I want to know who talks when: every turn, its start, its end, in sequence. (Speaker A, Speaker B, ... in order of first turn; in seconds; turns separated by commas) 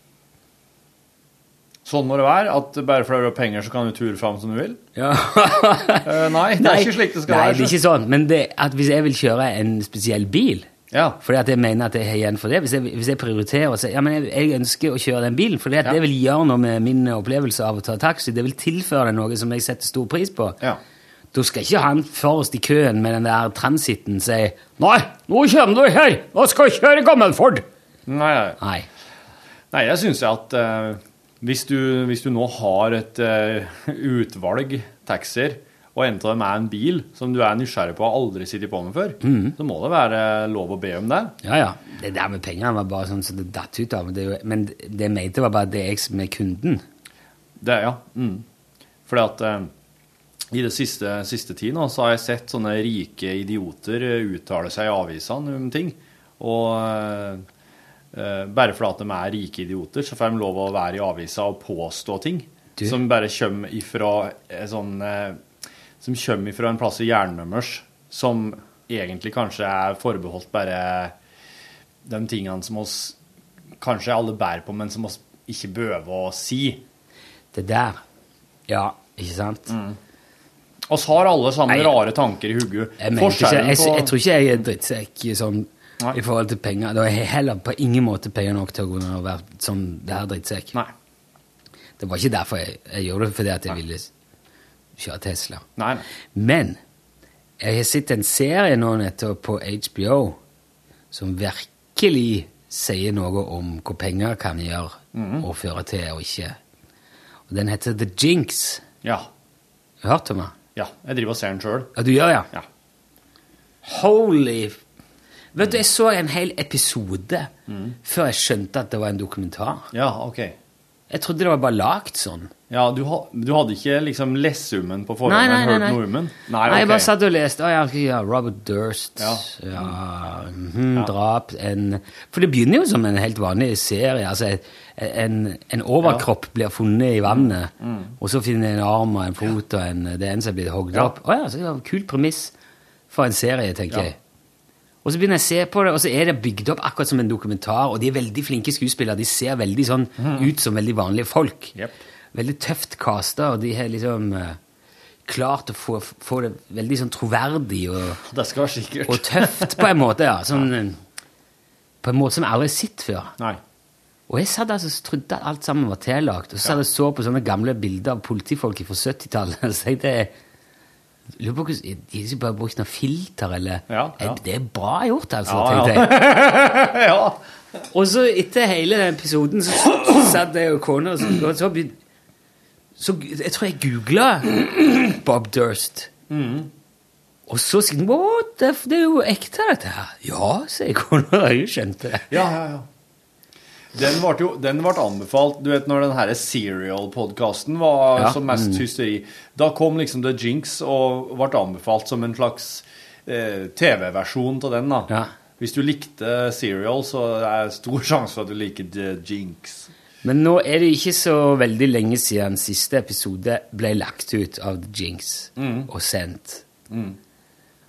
Speaker A: 1.9-4.8, Speaker B: 5.0-10.7, Speaker A: 6.0-7.8, Speaker A: 10.9-11.2, Speaker B: 11.2-20.6, Speaker B: 21.3-27.6, Speaker A: 28.1-28.6, Speaker B: 28.6-28.9, Speaker A: 29.7-41.4, Speaker B: 39.2-39.6, Speaker B: 41.4-46.8, Speaker A: 47.6-48.5, Speaker A: 49.1-49.7, Speaker A: 50.5-57.4, Speaker A: 58.1-65.4, Speaker A: 66.0-71.2, Speaker A: 72.0-73.2, Speaker A: 73.8-76.8, Speaker B: 77.5-78.0, Speaker B: 78.7-79.8, Speaker A: 79.7-80.0, Speaker A: 80.9-84.1, Speaker B: 81.7-82.0, Speaker B: 83.0-90.8, Speaker B: 92.0-94.1, Speaker B: 95.0-95.7, Speaker A: 95.8-96.0, Speaker B: 96.3-96.8, Speaker B: 97.6-100.4, Speaker B: 101.1-106.6, Speaker A: 105.1-105.5, Speaker B: 107.5-108.8, Speaker B: 110.0-110.5, Speaker A: 110.8-111.9, Speaker B: 112.0-112.5, Speaker B: 113.8-114.8, Speaker B: 115.5-117.5, Speaker A: 117.7-118.0, Speaker B: 118.0-119.9, Speaker A: 119.9-120.6, Speaker B: 121.1-122.5, Speaker A: 122.7-127.1, Speaker B: 125.2-126.0, Speaker B: 126.6-142.5, Speaker A: 129.2-130.0, Speaker A: 137.3-138.1, Speaker B: 143.1-144.2, Speaker B: 145.0-151.8, Speaker A: 150.2-150.5, Speaker B: 152.3-154.6, Speaker B: 155.3-158.2, Speaker A: 158.2-159.9, Speaker B: 159.1-161.0, Speaker B: 162.0-163.3, Speaker B: 164.3-170.3, Speaker B: 171.4-176.2, Speaker A: 173.9-174.4, Speaker A: 175.5-177.4, Speaker B: 177.9-181.9, Speaker B: 183.0-186.1, Speaker A: 186.3-186.7, Speaker B: 187.5-192.4, Speaker A: 192.3-192.9, Speaker A: 193.9-209.9, Speaker B: 198.2-198.8, Speaker B: 210.2-216.7, Speaker A: 215.6-215.9, Speaker A: 216.9-217.2